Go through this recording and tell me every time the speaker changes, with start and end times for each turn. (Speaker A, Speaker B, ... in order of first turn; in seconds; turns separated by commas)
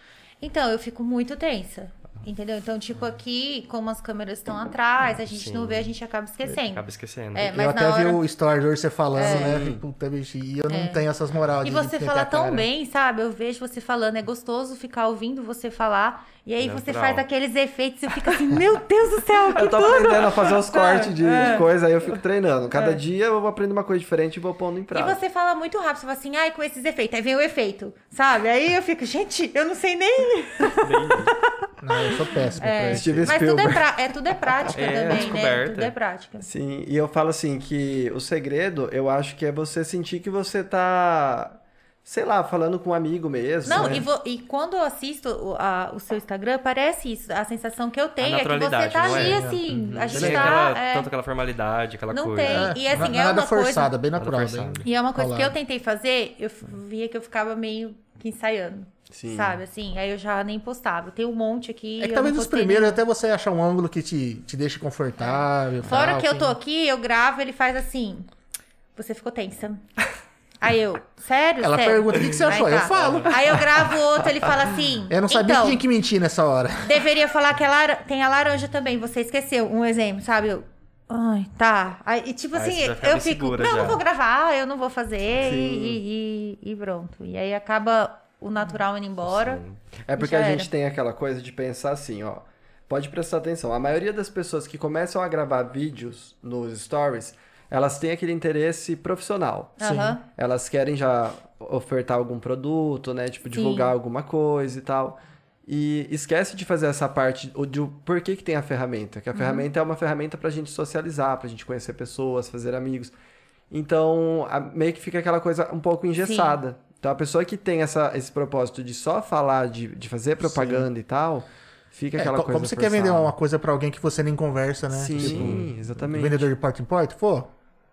Speaker A: 0.4-8.2, Speaker B: 5.3-5.9, Speaker B: 6.5-7.5, Speaker C: 7.5-12.7, Speaker A: 9.1-9.6, Speaker D: 9.2-9.8, Speaker A: 10.7-11.0, Speaker A: 11.6-21.6, Speaker B: 16.6-17.2, Speaker D: 19.5-25.2, Speaker A: 22.7-23.0, Speaker A: 24.9-31.3, Speaker B: 30.8-31.3, Speaker C: 31.8-33.4, Speaker A: 32.0-36.5, Speaker D: 32.9-33.9, Speaker B: 34.7-35.9, Speaker D: 36.4-44.1, Speaker A: 43.6-51.1, Speaker C: 43.7-44.0, Speaker B: 48.2-49.5, Speaker C: 49.0-50.4, Speaker D: 49.7-50.6, Speaker B: 50.1-52.7, Speaker A: 52.1-53.9, Speaker C: 52.4-55.6, Speaker B: 54.1-54.9, Speaker A: 54.8-63.0, Speaker D: 59.1-59.6, Speaker C: 62.0-66.5, Speaker A: 65.2-68.3, Speaker A: 69.0-69.8, Speaker A: 70.6-75.8, Speaker C: 71.6-73.9, Speaker B: 72.9-73.3, Speaker C: 75.1-77.1, Speaker A: 76.8-89.6, Speaker B: 82.5-84.0, Speaker D: 85.4-86.0, Speaker B: 89.2-89.8, Speaker D: 90.0-113.1, Speaker A: 90.1-90.7, Speaker A: 99.8-100.2, Speaker C: 99.8-100.2, Speaker A: 103.5-103.9, Speaker A: 109.3-109.7, Speaker D: 113.7-123.3, Speaker A: 116.2-116.6, Speaker C: 120.4-120.9, Speaker C: 122.2-127.5, Speaker D: 124.9-126.5, Speaker B: 125.2-125.6